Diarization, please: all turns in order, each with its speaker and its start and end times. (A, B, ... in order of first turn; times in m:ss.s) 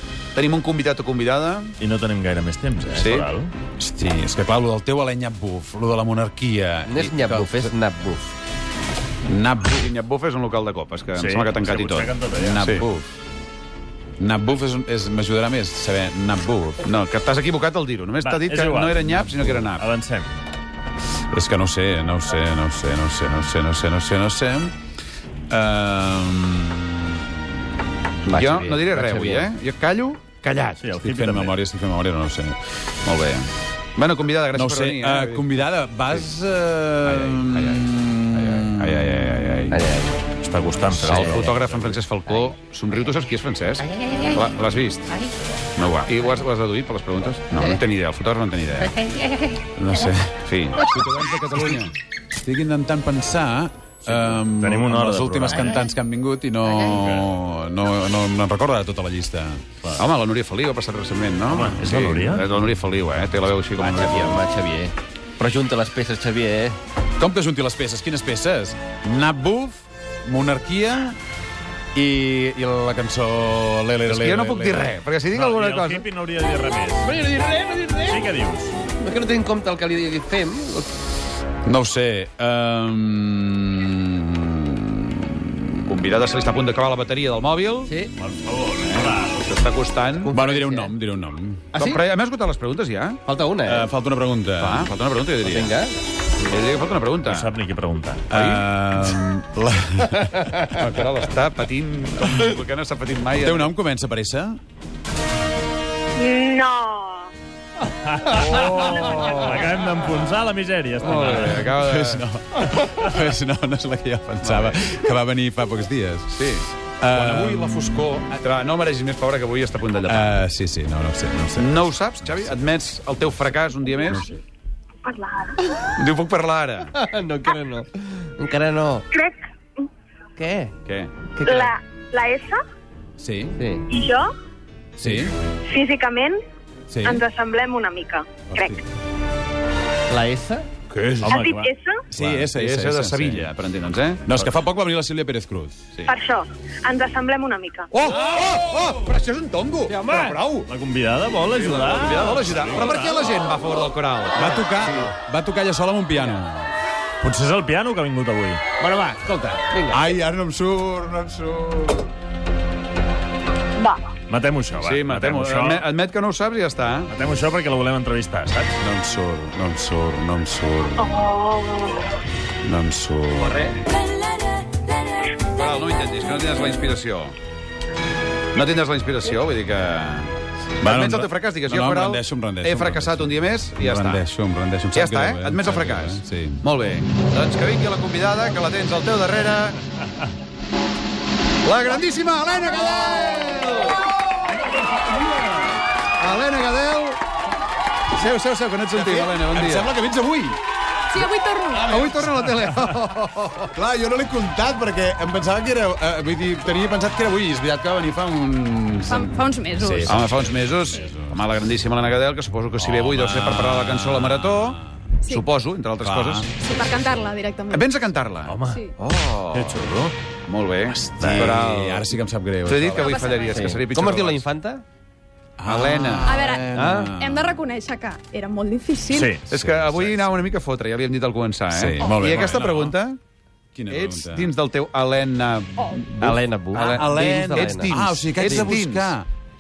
0:00.3-0:01.7 A
0:01.8-0:03.5 B
0:02.9-0:03.3 A
0:03.8-0:07.8 C
0:06.9-0:08.3 D
0:09.3-0:09.9 C
0:09.7-0:12.8 A
0:11.2-0:12.6 B
0:12.3-0:13.1 C
0:14.2-0:16.8 C
0:16.8-0:19.9 A
0:18.2-0:20.3 B
0:21.3-0:24.7 C
0:25.5-0:27.4 C
0:28.2-0:29.5 D
0:28.3-0:30.8 A
0:30.8-0:31.6 B
0:31.0-0:32.6 C
0:33.0-0:36.3 A
0:34.5-0:39.7 C
0:37.0-0:39.8 A
0:39.7-0:40.1 D
0:40.4-0:41.9 B
0:41.0-0:45.2 A
0:41.1-0:41.6 D
0:45.8-0:49.0 A
0:49.8-0:50.4 C
0:50.4-0:51.9 A
0:52.4-0:59.6 C
0:54.1-0:55.8 B
0:56.9-0:57.3 B
1:00.0-1:04.4 A
1:01.5-1:02.5 B
1:03.8-1:06.8 D
1:07.2-1:11.2 C
1:12.0-1:14.9 C
1:14.1-1:16.1 A
1:15.3-1:17.2 B
1:17.0-1:18.3 D
1:18.0-1:18.8 B
1:18.9-1:20.9 D
1:21.6-1:25.7 C
1:25.9-1:28.0 A
1:27.9-1:28.1 D
1:28.2-1:29.4 B
1:28.8-1:30.4 A
1:30.2-1:30.9 D
1:30.3-1:31.7 C
1:31.7-1:32.0 D
1:31.8-1:33.2 A
1:33.3-1:33.9 D
1:33.6-1:34.9 C
1:34.6-1:35.8 A
1:35.4-1:35.9 D
1:36.5-1:37.5 A
1:37.3-1:38.3 B
1:38.3-1:40.7 C
1:38.3-1:38.6 A
1:40.6-1:43.7 A
1:43.4-1:44.6 C
1:46.2-1:47.3 E
1:47.9-1:51.6 B
1:51.0-1:52.3 A
1:51.6-1:56.4 C
1:54.4-1:55.0 A
1:56.3-1:56.7 A
1:57.0-1:58.1 C
1:57.1-1:58.3 B
1:58.4-2:00.4 A
2:00.1-2:01.9 C
2:01.6-2:04.3 A
2:04.1-2:04.4 C
2:05.0-2:05.7 E
2:06.0-2:06.9 A
2:06.9-2:09.1 D
2:09.1-2:09.9 E
2:10.4-2:10.7 D
2:10.8-2:11.1 A
2:11.4-2:11.7 D
2:11.4-2:12.6 E
2:13.2-2:13.6 C
2:13.6-2:13.9 D
2:13.9-2:14.3 E
2:15.0-2:15.3 C
2:15.7-2:16.4 E
2:16.9-2:17.2 C
2:17.0-2:18.8 E
2:18.5-2:18.8 C
2:20.1-2:20.7 D
2:20.9-2:21.3 A
2:21.2-2:22.4 B
2:21.3-2:22.0 E
2:22.1-2:23.5 C
2:22.5-2:24.4 A
2:24.3-2:25.8 C
2:26.1-2:27.9 E
2:27.9-2:30.7 A
2:29.9-2:30.3 D
2:30.7-2:33.2 B
2:31.5-2:34.7 A
2:34.3-2:36.7 C
2:37.2-2:38.6 B
2:38.8-2:40.1 D
2:39.9-2:42.1 C
2:43.8-2:44.1 E
2:44.3-2:45.8 B
2:44.8-2:47.1 A
2:47.1-2:48.8 B
2:48.8-2:51.2 C
2:51.0-2:52.2 E
2:52.6-2:53.6 C
2:55.5-2:57.4 A
2:58.5-3:04.2 A
3:00.8-3:06.6 C
3:04.9-3:09.8 A
3:11.6-3:14.0 A
3:16.2-3:17.2 A
3:18.1-3:19.9 A
3:18.9-3:20.6 C
3:21.1-3:22.0 F
3:21.7-3:23.7 A
3:23.7-3:31.5 C
3:29.1-3:30.2 F
3:30.1-3:36.5 A
3:32.8-3:35.0 C
3:36.0-3:36.5 C
3:36.6-3:37.8 F
3:37.7-3:39.8 A
3:38.5-3:38.9 B
3:39.5-3:40.1 B
3:40.5-3:42.1 A
3:40.9-3:43.2 C
3:41.2-3:41.5 B
3:41.4-3:41.9 D
3:42.6-3:44.5 A
3:43.0-3:43.6 F
3:43.4-3:44.8 D
3:45.6-3:47.6 C
3:45.7-3:46.4 A
3:46.2-3:49.4 F
3:46.7-3:47.2 D
3:49.1-3:49.4 B
3:49.5-3:50.3 C
3:49.5-3:53.2 A
3:51.7-3:53.0 C
3:53.8-3:54.5 C
3:53.9-3:59.2 A
3:56.2-3:58.7 D
3:56.8-3:59.3 C